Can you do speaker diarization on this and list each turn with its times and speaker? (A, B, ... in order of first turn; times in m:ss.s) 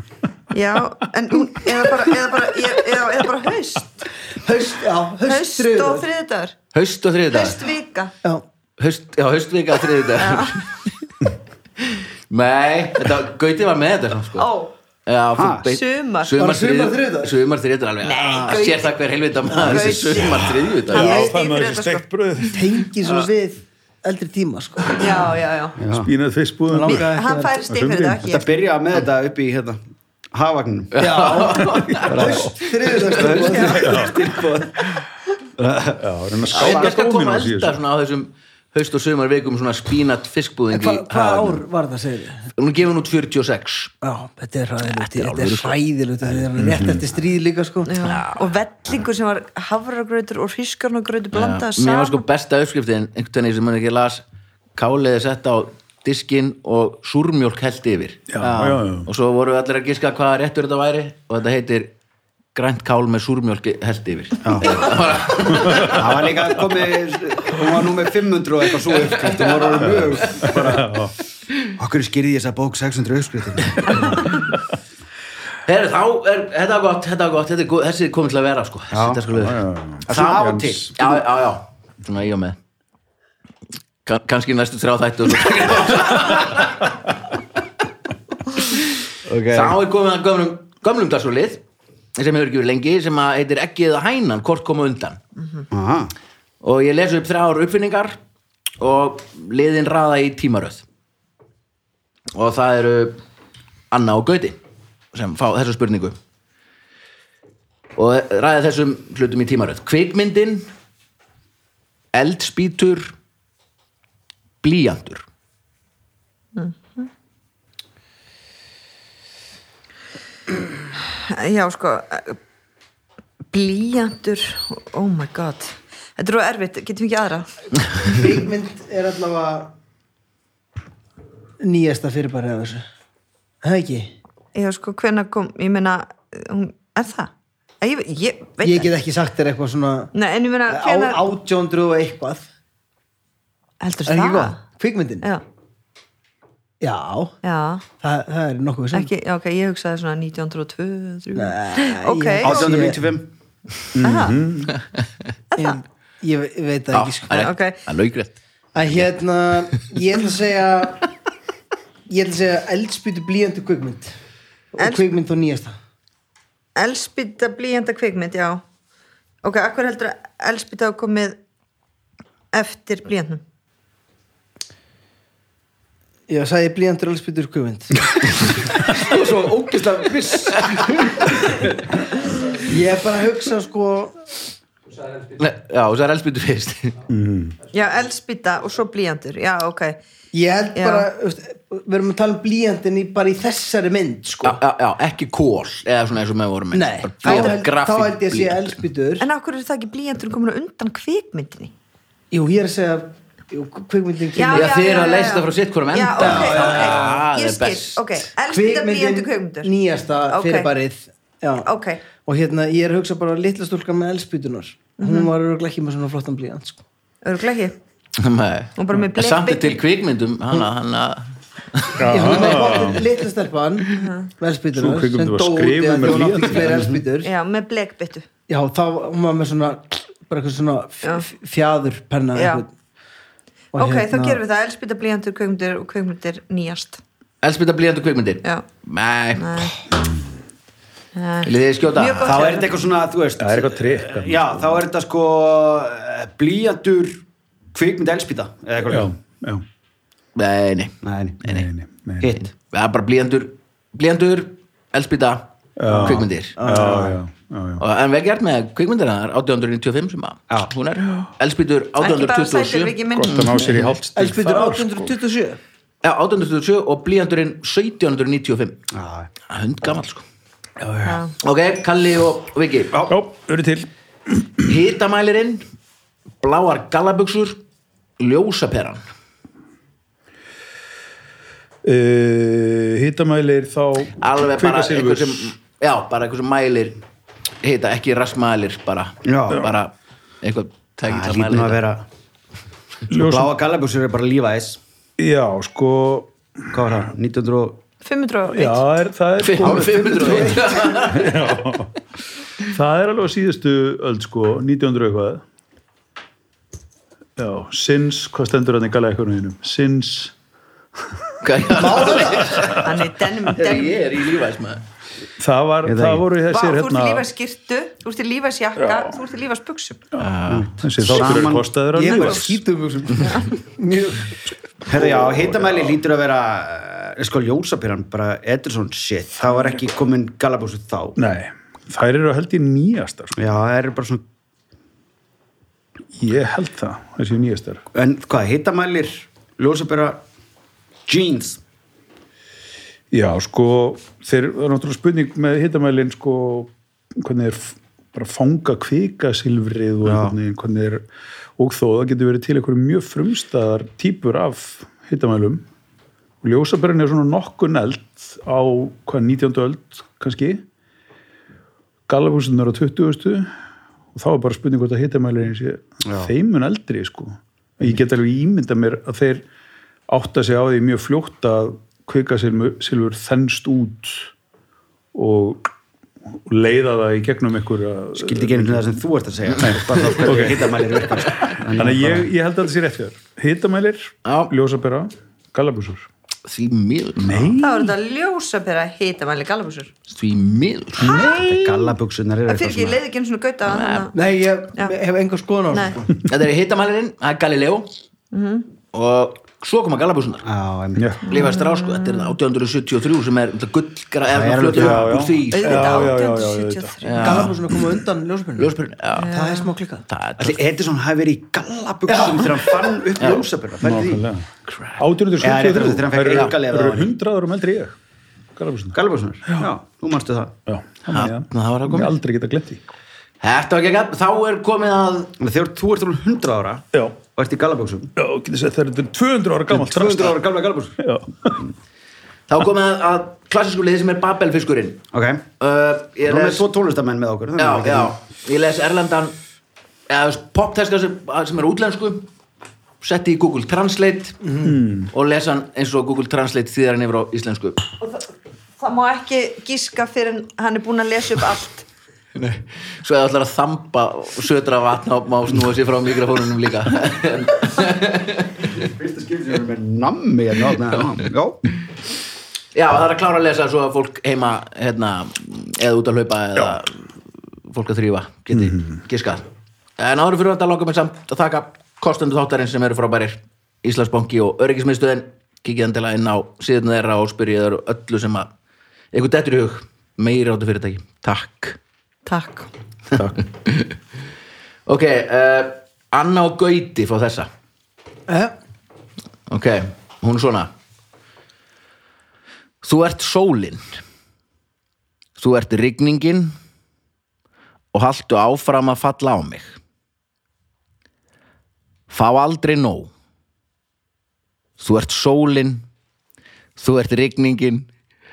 0:00.5-0:04.1 A
0:04.4-0:06.1 B
0:05.3-0:06.6 A
0:06.7-0:07.6 C
0:07.3-0:08.1 A
0:08.8-0:10.9 C
0:10.2-0:10.6 A
0:11.8-0:14.5 C
0:14.4-0:14.7 A
0:15.1-0:21.3 C
0:15.4-0:15.7 D
0:15.6-0:16.4 A
0:16.4-0:17.4 B
0:18.0-0:18.9 A
0:19.5-0:22.0 A
0:19.5-0:19.8 B
0:19.8-0:20.3 D
0:20.9-0:21.4 B
0:20.9-0:22.9 E
0:22.5-0:25.2 B
0:25.0-0:25.8 A
0:25.8-0:26.1 D
0:25.9-0:27.1 E
0:26.7-0:27.6 B
0:26.9-0:28.5 A
0:27.7-0:28.2 E
0:28.2-0:29.8 D
0:30.3-0:31.0 D
0:30.9-0:32.4 C
0:31.0-0:34.0 B
0:31.7-0:32.5 E
0:32.1-0:32.5 D
0:33.1-0:35.0 D
0:33.7-0:34.4 E
0:35.6-0:36.9 D
0:36.0-0:37.8 E
0:36.5-0:41.6 C
0:40.7-0:42.5 B
0:42.6-0:43.9 C
0:44.0-0:47.9 B
0:44.8-0:46.4 C
0:46.6-0:47.1 E
0:47.9-0:52.2 A
0:48.0-0:48.5 C
0:51.3-0:54.2 C
0:54.8-1:01.9 C
0:58.3-0:59.1 E
1:02.6-1:06.4 C
1:04.4-1:04.8 D
1:05.5-1:06.0 E
1:05.8-1:11.0 D
1:08.9-1:10.4 C
1:09.8-1:11.1 E
1:11.8-1:14.2 D
1:15.7-1:19.6 C
1:18.9-1:19.2 D
1:19.3-1:20.9 E
1:20.1-1:21.1 D
1:20.1-1:22.6 C
1:24.0-1:26.9 C
1:28.6-1:28.9 C
1:29.3-1:29.8 D
1:29.5-1:31.6 C
1:32.2-1:35.2 C
1:35.7-1:36.1 D
1:36.6-1:38.2 C
1:38.8-1:40.8 C
1:42.3-1:43.2 C
1:43.9-1:44.6 C
1:45.1-1:46.2 C
1:48.0-1:50.7 C
1:52.1-1:53.1 C
1:54.6-1:55.2 C
1:56.6-1:57.1 A
2:01.1-2:02.4 A
2:03.5-2:07.5 A
2:08.0-2:09.7 B
2:11.6-2:12.8 B
2:13.6-2:14.1 B
2:14.6-2:18.9 A
2:18.6-2:20.1 B
2:20.1-2:21.2 A
2:20.7-2:22.5 B
2:23.8-2:24.6 A
2:24.1-2:25.3 B
2:26.8-2:27.4 B
2:27.4-2:27.8 A
2:28.0-2:29.1 B
2:28.9-2:32.7 A
2:31.4-2:33.0 B
2:32.4-2:33.3 D
2:34.0-2:34.8 E
2:34.0-2:34.4 A
2:35.6-2:37.4 B
2:36.9-2:38.4 C
2:37.3-2:37.8 A
2:38.8-2:41.1 B
2:42.1-2:44.2 B
2:44.7-2:45.8 B
2:44.8-2:45.1 A
2:46.8-2:48.6 A
2:49.4-2:51.4 A
2:52.5-2:53.4 A
2:56.3-2:58.4 B
2:58.9-3:02.0 D
3:02.6-3:04.2 B
3:05.3-3:07.0 C
3:07.1-3:07.6 E
3:07.7-3:10.0 A
3:10.3-3:14.6 B
3:10.8-3:11.1 A
3:14.4-3:18.8 C
3:16.7-3:19.3 B
3:17.3-3:17.5 A
3:19.2-3:21.7 A
3:22.3-3:24.7 B
3:24.4-3:29.7 A
3:24.5-3:28.3 C
3:26.2-3:27.2 B
3:28.5-3:31.7 B
3:30.3-3:30.7 A
3:31.6-3:32.0 A
3:32.2-3:36.8 B
3:35.0-3:35.3 A
3:37.2-3:37.8 A
3:38.2-3:42.4 C
3:38.8-3:39.8 A
3:42.0-3:43.1 E
3:42.1-3:47.3 B
3:43.9-3:44.3 A
3:44.8-3:46.9 E
3:46.7-3:47.0 D
3:47.2-3:48.3 A
3:48.5-3:52.7 B
3:52.4-3:52.6 A
3:53.7-3:54.4 B
3:53.8-3:57.0 A
3:57.4-3:59.8 C
3:59.4-3:59.8 A
4:01.2-4:02.8 A
4:01.4-4:02.6 C
4:02.2-4:07.2 D
4:03.4-4:04.8 E
4:07.7-4:09.1 D
4:08.9-4:09.6 E
4:10.4-4:11.7 C
4:11.0-4:11.4 D
4:11.4-4:12.4 E
4:12.2-4:12.5 D
4:12.5-4:16.6 C
4:15.8-4:17.8 E
4:15.9-4:16.2 D
4:16.6-4:17.2 B
4:17.8-4:23.9 C
4:22.0-4:23.6 A
4:23.1-4:25.2 E
4:24.2-4:25.6 B
4:26.0-4:28.8 C
4:28.9-4:29.3 D
4:29.5-4:30.2 C
4:31.0-4:31.3 A
4:31.4-4:33.0 C
4:33.1-4:34.7 E
4:34.7-4:35.6 C
4:36.4-4:37.6 C
4:38.2-4:39.0 C
4:41.8-4:45.5 E
4:44.2-4:47.0 C
4:47.6-4:51.8 C
4:49.2-4:49.7 D
4:51.1-4:52.0 D
4:53.1-4:53.5 E
4:53.2-4:54.8 D
4:55.2-4:56.8 E
4:56.7-4:57.8 D
4:58.0-4:58.8 A
4:58.5-5:01.9 E
4:59.4-5:01.3 C
4:59.6-5:00.8 D
5:00.2-5:00.7 B
5:02.7-5:05.4 E
5:07.4-5:10.3 E
5:11.4-5:12.9 C
5:11.7-5:12.6 B
5:11.8-5:13.1 E
5:12.7-5:14.0 A
5:13.5-5:14.8 C
5:15.4-5:17.3 E
5:15.8-5:16.2 D
5:16.5-5:20.0 A
5:18.8-5:19.1 E
5:20.1-5:22.6 E
5:20.2-5:20.7 C
5:20.5-5:21.7 D
5:21.9-5:24.4 B
5:24.9-5:31.2 D
5:24.9-5:26.0 E
5:31.2-5:33.4 E
5:33.4-5:34.2 D
5:36.2-5:37.8 E
5:38.0-5:40.2 D
5:41.1-5:41.6 D
5:43.1-5:51.0 E
5:50.0-5:50.4 D
5:51.6-5:55.6 E
5:56.4-6:00.6 E
6:02.1-6:03.5 E
6:04.1-6:09.4 E
6:06.0-6:06.3 D
6:10.1-6:14.3 E
6:15.1-6:15.7 E
6:16.3-6:18.9 E
6:18.2-6:22.3 D
6:19.5-6:20.9 E
6:21.4-6:26.1 E
6:24.2-6:24.5 C
6:26.5-6:27.5 C
6:27.2-6:28.0 E
6:27.6-6:29.9 A
6:30.1-6:31.9 C
6:31.0-6:33.0 D
6:31.0-6:31.4 A
6:32.5-6:34.2 A
6:33.6-6:34.1 C
6:34.1-6:36.0 B
6:35.7-6:36.0 A
6:36.2-6:37.9 C
6:38.3-6:38.7 A
6:38.9-6:40.4 C
6:40.4-6:41.2 D
6:41.0-6:41.4 E
6:41.3-6:46.1 C
6:41.3-6:42.4 A
6:44.3-6:45.1 D
6:44.7-6:47.0 E
6:45.5-6:47.5 A
6:47.0-6:47.6 C
6:47.2-6:48.8 B
6:48.6-6:49.3 C
6:49.2-6:49.7 A
6:49.3-6:50.0 B
6:50.1-6:50.6 C
6:50.4-6:54.2 D
6:52.1-6:53.0 B
6:53.2-6:53.5 C
6:53.8-6:58.0 E
6:54.7-6:55.0 C
6:55.4-6:57.1 D
6:58.6-6:59.0 E
6:58.9-7:00.6 D
7:00.7-7:02.9 E
7:01.1-7:02.2 C
7:03.4-7:05.4 C
7:05.4-7:08.1 D
7:06.9-7:07.2 E
7:08.2-7:10.4 E
7:09.7-7:11.0 D
7:11.0-7:11.7 E
7:12.5-7:15.0 C
7:15.1-7:15.4 D
7:15.6-7:16.6 C
7:16.2-7:18.1 D
7:17.6-7:19.4 C
7:20.1-7:22.3 C
7:23.0-7:27.8 C
7:24.4-7:24.7 B
7:24.6-7:25.1 E
7:28.0-7:31.8 A
7:32.4-7:38.7 C
7:38.7-7:41.6 D
7:42.7-7:47.0 C
7:47.7-7:49.5 C
7:48.5-7:49.0 E
7:50.0-7:58.5 C
7:59.1-8:01.8 C
8:02.3-8:02.7 A
8:03.1-8:03.9 C
8:04.9-8:07.5 C
8:08.3-8:08.5 B
8:09.5-8:10.7 C
8:12.8-8:14.0 C
8:15.4-8:16.5 C
8:17.9-8:19.8 C
8:22.1-8:23.1 C
8:24.8-8:25.9 C
8:26.8-8:27.9 C